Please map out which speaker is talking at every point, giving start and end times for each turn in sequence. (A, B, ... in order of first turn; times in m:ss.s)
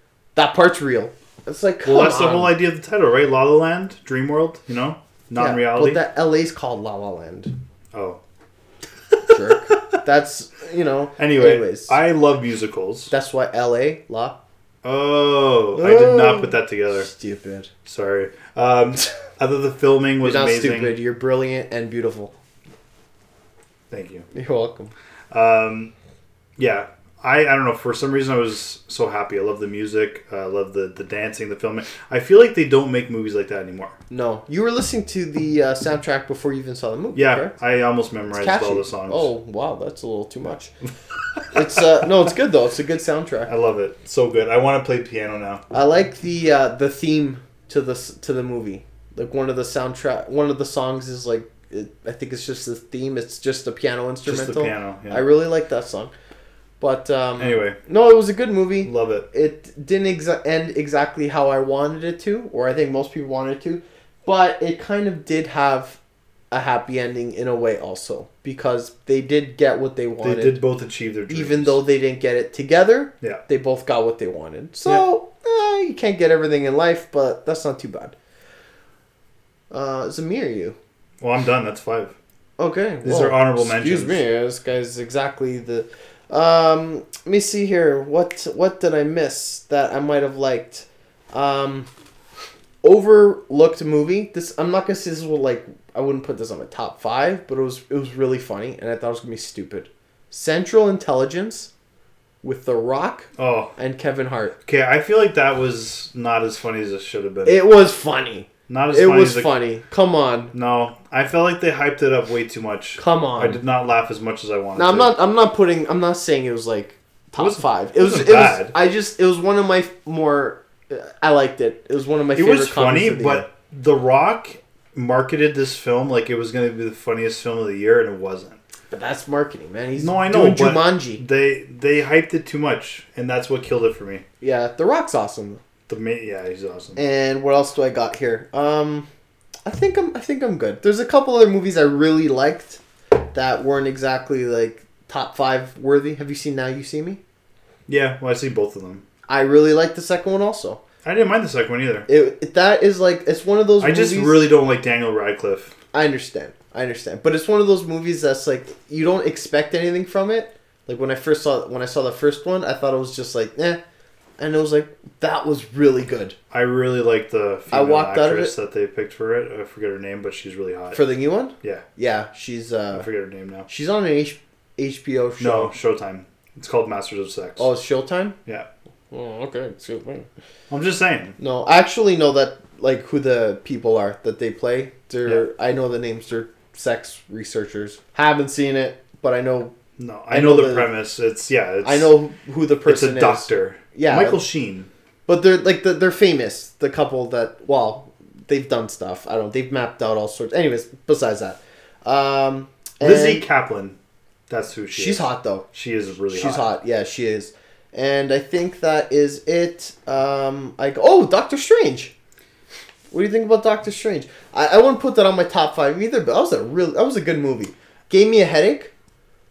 0:00.3-0:02.5 A
0:01.8-0:06.0 B
0:05.4-0:07.5 A
0:07.9-0:08.2 B
0:09.3-0:12.0 A
0:11.2-0:13.1 B
0:13.1-0:14.4 A
0:14.8-0:17.1 B
0:15.7-0:17.7 A
0:17.8-0:21.0 B
0:20.2-0:22.3 A
0:23.9-0:24.3 B
0:24.3-0:24.9 A
0:25.3-0:25.9 B
0:26.6-0:34.0 B
0:34.1-0:37.5 A
0:37.1-0:39.3 B
0:38.3-0:40.7 A
0:41.5-0:43.5 A
0:43.4-0:45.6 B
0:45.7-0:56.1 A
0:54.2-0:55.3 B
0:56.8-1:06.0 A
0:57.4-0:57.8 B
0:58.8-0:59.3 B
1:06.5-1:10.6 A
1:10.2-1:11.8 B
1:11.3-1:18.1 A
1:19.7-1:20.8 A
1:21.2-1:22.1 B
1:22.6-1:31.9 A
1:23.0-1:24.2 B
1:32.8-1:41.7 A
1:42.4-1:44.5 A
1:43.4-1:43.7 B
1:44.6-1:47.6 B
1:47.4-1:50.5 A
1:48.7-1:49.5 B
1:50.5-1:55.1 B
1:53.0-1:53.6 A
1:54.8-2:03.5 A
1:57.4-1:58.8 B
2:02.3-2:08.6 B
2:08.9-2:11.2 A
2:10.0-2:14.2 B
2:14.4-2:15.6 A
2:15.9-2:17.0 B
2:17.0-2:19.1 A
2:19.6-2:22.8 A
2:23.3-2:27.2 A
2:27.9-2:29.0 B
2:29.3-2:30.8 A
2:31.0-2:32.1 B
2:32.1-2:34.5 A
2:33.8-2:35.7 B
2:35.9-2:43.8 A
2:44.4-2:46.4 A
2:46.5-2:51.0 B
2:47.7-2:48.5 A
2:50.9-2:53.1 A
2:52.9-2:53.7 B
2:53.6-2:55.7 A
2:55.4-2:57.7 B
2:57.6-2:58.4 A
2:59.1-3:00.3 A
3:00.7-3:01.4 B
3:01.4-3:09.7 A
3:10.0-3:12.1 B
3:10.3-3:10.9 A
3:11.8-3:14.4 A
3:12.8-3:14.9 B
3:15.3-3:23.4 A
3:23.0-3:24.0 B
3:24.5-3:26.7 B
3:24.9-3:25.6 A
3:26.3-3:32.1 A
3:33.1-3:38.9 A